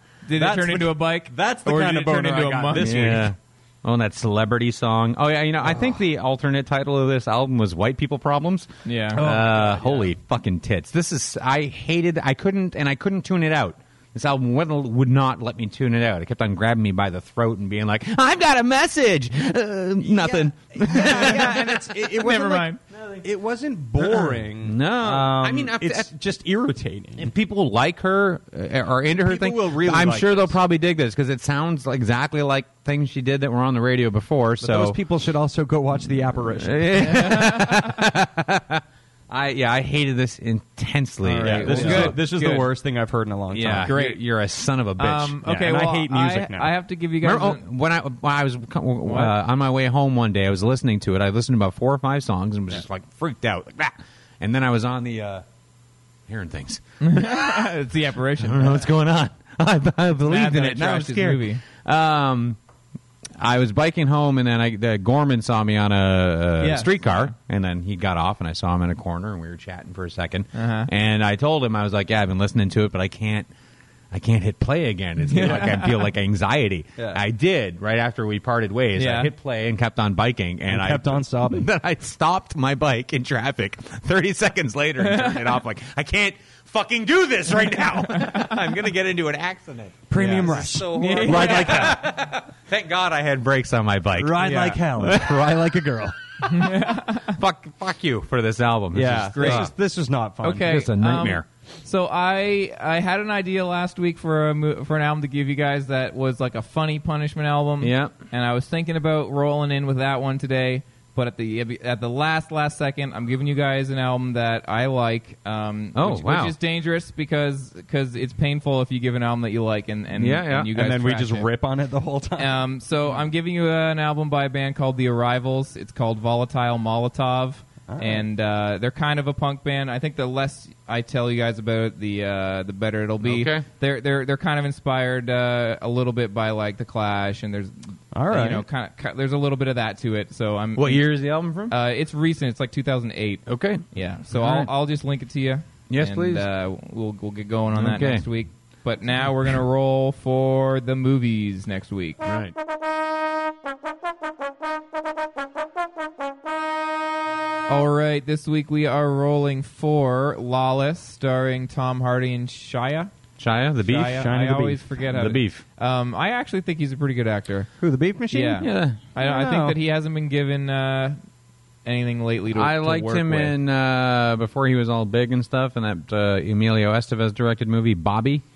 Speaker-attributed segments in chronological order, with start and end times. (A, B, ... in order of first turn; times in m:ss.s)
0:00.2-0:03.1 A
0:00.4-0:03.3 B
0:02.8-0:21.9 C
0:05.6-0:06.0 B
0:08.8-0:09.2 A
0:09.1-0:10.1 B
0:20.0-0:27.3 B
0:21.0-0:21.3 A
0:22.2-0:22.8 A
0:22.9-0:23.2 C
0:24.0-0:26.1 C
0:27.2-0:35.0 C
0:29.2-0:30.6 B
0:34.6-0:37.0 B
0:36.6-0:42.2 C
0:37.0-0:37.8 A
0:41.2-0:43.9 B
0:41.4-0:42.7 A
0:43.5-0:45.4 C
0:43.7-0:44.2 A
0:45.0-0:47.6 A
0:45.4-0:46.7 B
0:47.2-0:55.4 C
0:49.0-0:49.3 A
0:56.3-0:57.7 C
0:57.0-0:58.9 A
0:58.4-1:02.6 C
1:00.2-1:01.6 A
1:03.4-1:13.5 C
1:06.6-1:07.3 A
1:10.5-1:10.9 A
1:14.1-1:35.6 C
1:15.2-1:16.0 A
1:19.0-1:19.3 A
1:20.7-1:21.7 B
1:25.0-1:25.4 A
1:28.1-1:28.5 A
1:30.1-1:32.1 B
1:30.1-1:32.0 A
1:34.2-1:36.2 B
1:34.4-1:34.8 A
1:36.4-1:37.4 A
1:37.1-1:39.7 C
1:38.9-1:40.7 B
1:39.3-1:39.7 A
1:40.4-2:01.5 A
1:40.6-1:41.4 C
1:47.8-1:48.2 C
1:55.9-1:56.6 C
2:00.1-2:00.7 C
2:00.7-2:02.6 B
2:02.4-2:21.1 A
2:07.9-2:08.2 B
2:13.2-2:13.6 C
2:18.1-2:18.6 B
2:20.8-2:21.7 C
2:21.7-2:32.2 A
2:23.5-2:24.7 C
2:25.9-2:26.5 C
2:27.7-2:28.3 C
2:32.2-2:32.5 C
2:37.7-2:43.1 A
2:43.4-2:44.3 C
2:43.8-2:47.7 A
2:44.0-2:44.8 B
2:45.1-2:45.6 C
2:47.8-2:49.8 B
2:48.3-2:51.2 A
2:48.6-2:49.0 C
2:51.8-2:53.6 A
2:52.5-2:58.4 C